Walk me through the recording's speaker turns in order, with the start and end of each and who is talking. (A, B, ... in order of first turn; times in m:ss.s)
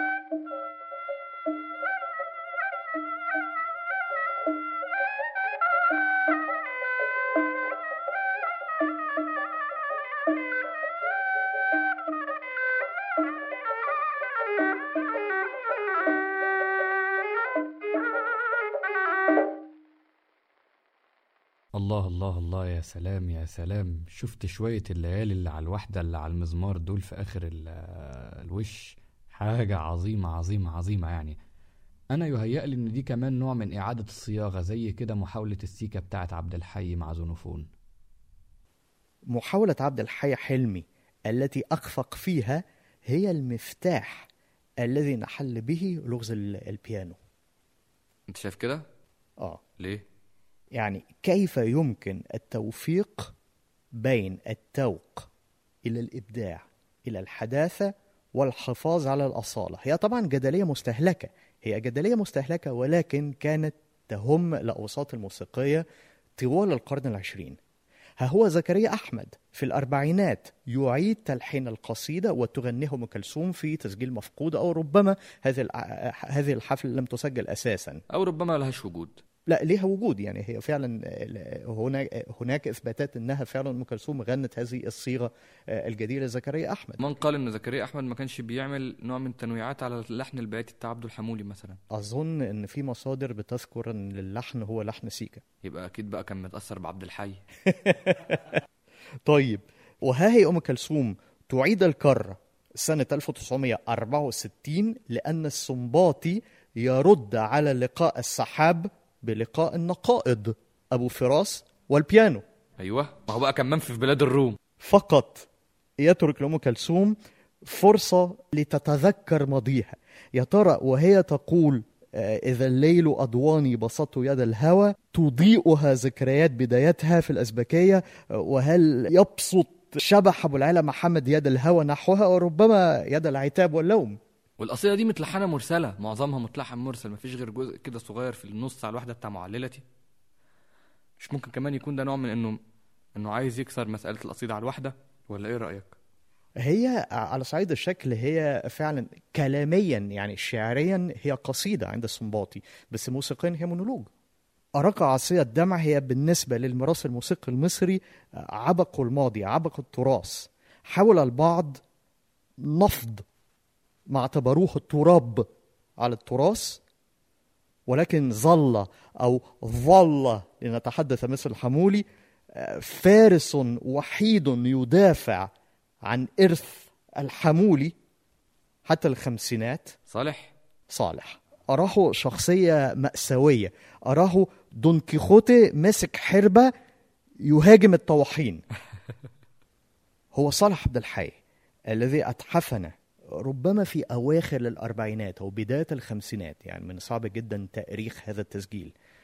0:21.7-0:31.4 A
0:32.1-0:37.7 A
0:39.3-0:44.3 B
0:44.8-0:47.2 B
0:48.3-0:48.8 C
0:49.8-0:50.0 C
0:50.8-0:53.3 B
0:54.0-0:55.3 B
0:55.8-1:05.8 B
1:06.4-1:07.6 B
1:08.2-1:18.0 B
1:18.1-1:19.2 C
1:19.5-1:27.0 B
1:27.0-1:31.8 C
1:31.9-1:35.4 B
1:35.6-1:37.4 C
1:37.7-1:38.6 B
1:39.2-1:52.4 B
1:52.8-1:54.6 C
1:54.8-1:55.5 B
1:56.0-2:14.2 B
2:14.6-2:19.8 C
2:21.2-2:22.6 C
2:23.2-2:25.9 C
2:26.6-2:34.1 B
2:34.8-2:41.8 B
2:42.6-2:43.2 B
2:44.1-2:45.4 B
2:46.0-2:46.8 B
2:47.9-2:52.0 B
2:52.5-2:55.5 B
2:56.1-2:57.9 B
2:58.8-2:59.9 B
3:00.1-3:00.5 C
3:00.9-3:06.7 B
3:07.4-3:08.6 B
3:10.3-3:11.4 B
3:11.9-3:18.9 B